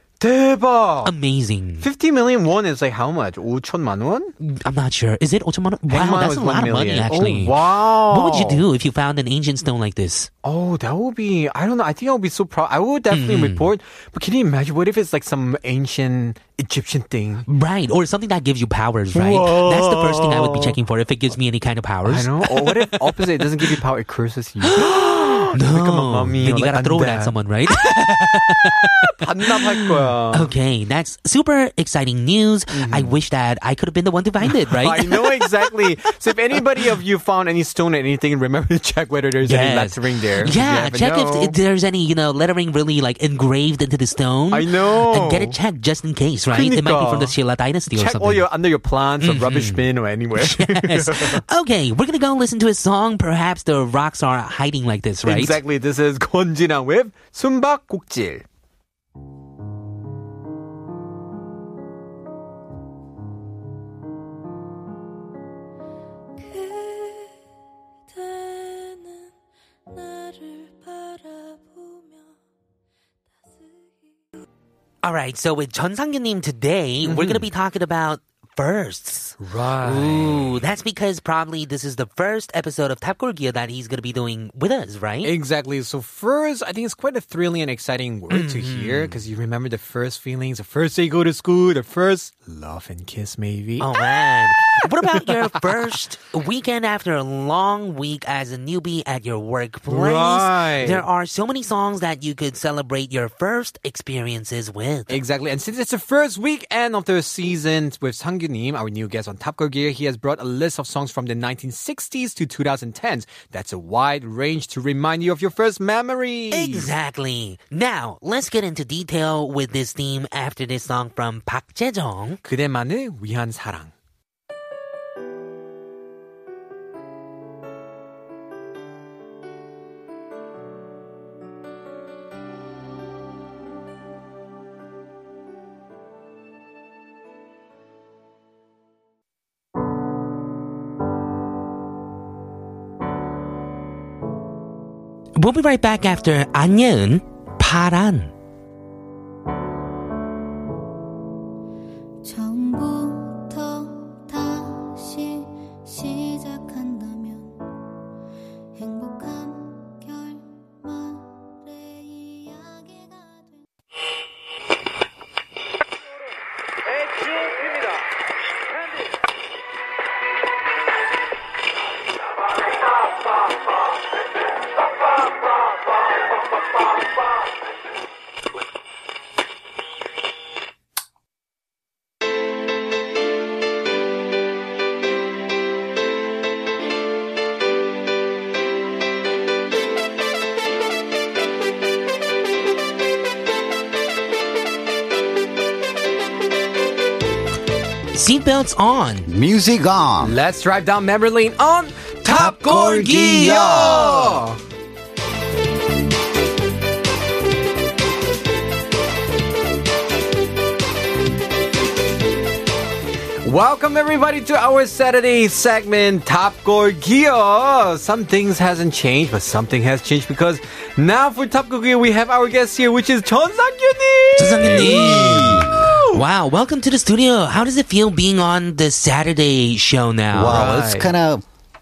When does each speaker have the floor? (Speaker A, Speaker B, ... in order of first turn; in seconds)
Speaker A: 0.2-1.1, 1.8-4.3, 5.9-8.6, 10.4-17.4, 19.1-20.8, 22.1-30.5, 32.7-33.1, 34.4-41.5, 44.5-45.5, 46.5-47.3, 47.9-51.4, 55.2-58.4, 77.0-77.5, 79.4-80.6, 85.2-94.0, 94.8-95.6, 99.9-101.0, 105.1-116.9, 122.4-123.9, 200.2-204.6, 213.4-226.2, 230.4-231.1
Speaker B: 1.0-1.9, 4.4-10.3, 13.1-13.7, 17.5-23.4, 24.6-35.7, 39.4-48.5, 49.2-49.8, 50.4-55.6, 75.0-85.3, 88.3-89.2, 93.8-105.2, 116.5-122.4, 145.4-148.3, 198.1-199.3, 202.2-204.4, 224.4-230.7
Speaker C: 66.4-67.3, 68.1-69.2, 69.9-72.2, 152.2-157.6, 158.7-163.6
Speaker D: 199.2-200.3, 224.6-225.8, 230.3-231.4